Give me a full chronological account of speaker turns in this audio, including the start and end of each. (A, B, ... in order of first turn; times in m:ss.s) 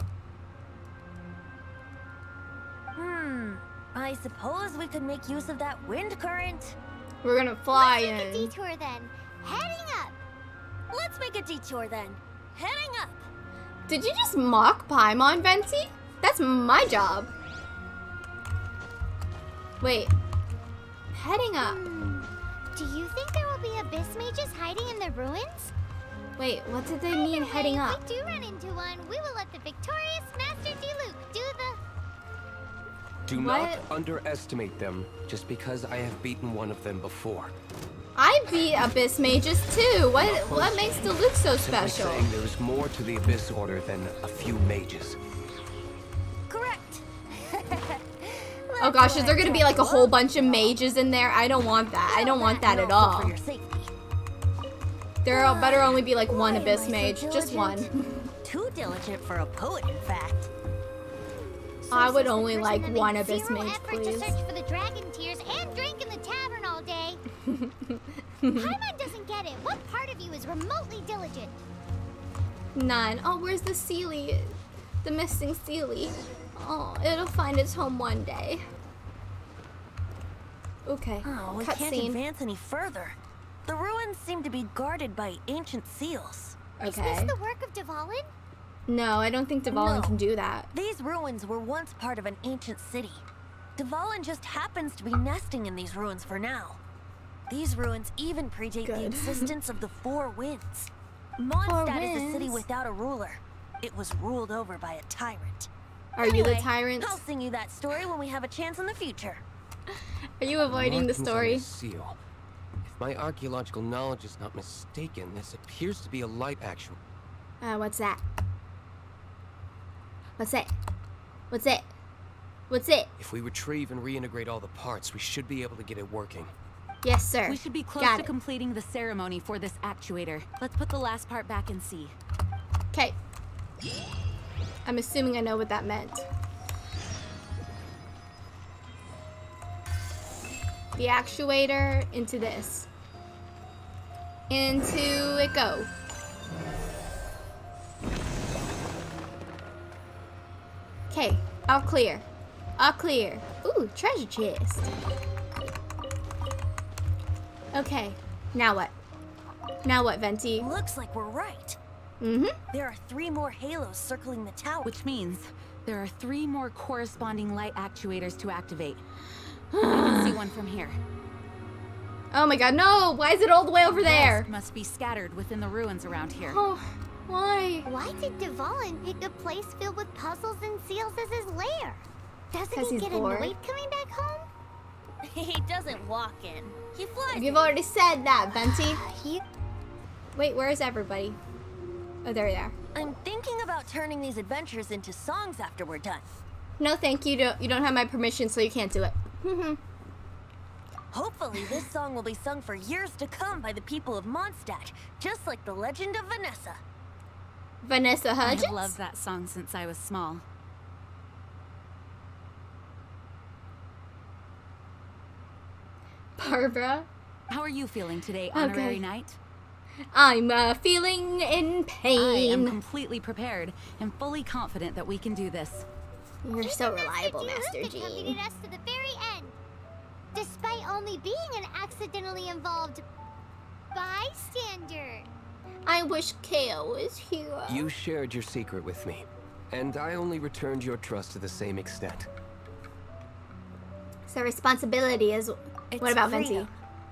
0:02.9-0:06.8 A
0:07.2-0:08.5 B
0:07.7-0:10.2 C
0:10.9-0:13.2 A
0:13.9-0:17.3 B
0:19.8-0:20.1 B
0:21.1-0:21.8 B
0:21.6-0:25.7 C
0:26.4-0:28.0 B
0:27.1-0:31.8 C
0:33.3-0:37.5 D
0:33.3-0:33.8 B
0:38.2-0:42.3 B
0:40.2-0:45.2 D
0:46.5-0:50.7 A
0:48.8-0:53.3 B
0:52.1-0:53.9 A
0:55.2-0:58.2 B
0:55.3-0:57.9 A
0:58.4-1:00.5 A
1:01.8-1:07.2 C
1:01.9-1:04.4 B
1:07.4-1:08.7 B
1:08.5-1:11.6 C
1:12.7-1:18.6 B
1:20.8-1:22.2 B
1:21.2-1:26.7 A
1:26.8-1:27.3 B
1:26.8-1:28.3 C
1:28.9-1:30.7 B
1:29.7-1:30.2 A
1:30.7-1:33.2 A
1:33.8-1:36.8 A
1:37.5-1:45.7 A
1:38.8-1:39.5 B
1:41.6-1:42.6 B
1:46.2-1:47.2 B
1:46.2-1:49.4 A
1:50.4-1:51.6 B
1:50.6-1:52.2 D
1:52.8-1:57.0 D
1:57.6-1:58.2 B
2:00.4-2:00.7 B
2:01.5-2:01.9 B
2:02.7-2:03.1 B
2:03.2-2:06.5 D
2:07.0-2:08.3 B
2:07.4-2:12.2 E
2:14.8-2:16.2 B
2:21.0-2:22.9 B
2:24.5-2:25.9 B
2:31.1-2:32.2 B
2:32.8-2:34.9 B
2:37.7-2:38.9 B
2:39.8-2:40.7 B
2:40.6-2:41.8 A
2:42.2-2:42.5 B
2:42.7-2:44.9 A
2:44.8-2:49.0 E
2:49.7-2:50.4 B
2:49.8-2:51.0 E
2:52.3-2:54.5 B
2:53.9-2:56.6 E
2:56.4-2:57.9 B
2:57.9-3:04.5 C
3:02.7-3:03.5 B
3:05.2-3:07.7 A
3:07.3-3:09.0 B
3:08.9-3:09.4 C
3:10.3-3:11.4 B
3:12.2-3:12.8 B
3:12.9-3:16.2 A
3:16.8-3:19.8 B
3:21.1-3:26.8 A
3:27.8-3:29.0 B
3:28.4-3:30.4 E
3:36.4-3:37.1 B
3:37.5-3:39.4 E
3:38.5-3:39.0 B
3:40.1-3:42.8 B
3:42.2-3:45.8 E
3:46.4-3:48.4 B
3:46.6-3:49.6 C
3:50.3-3:53.0 C
3:53.9-3:55.3 C
3:55.8-3:57.9 B
3:57.7-4:02.3 D
4:04.3-4:06.7 B
4:05.9-4:06.7 A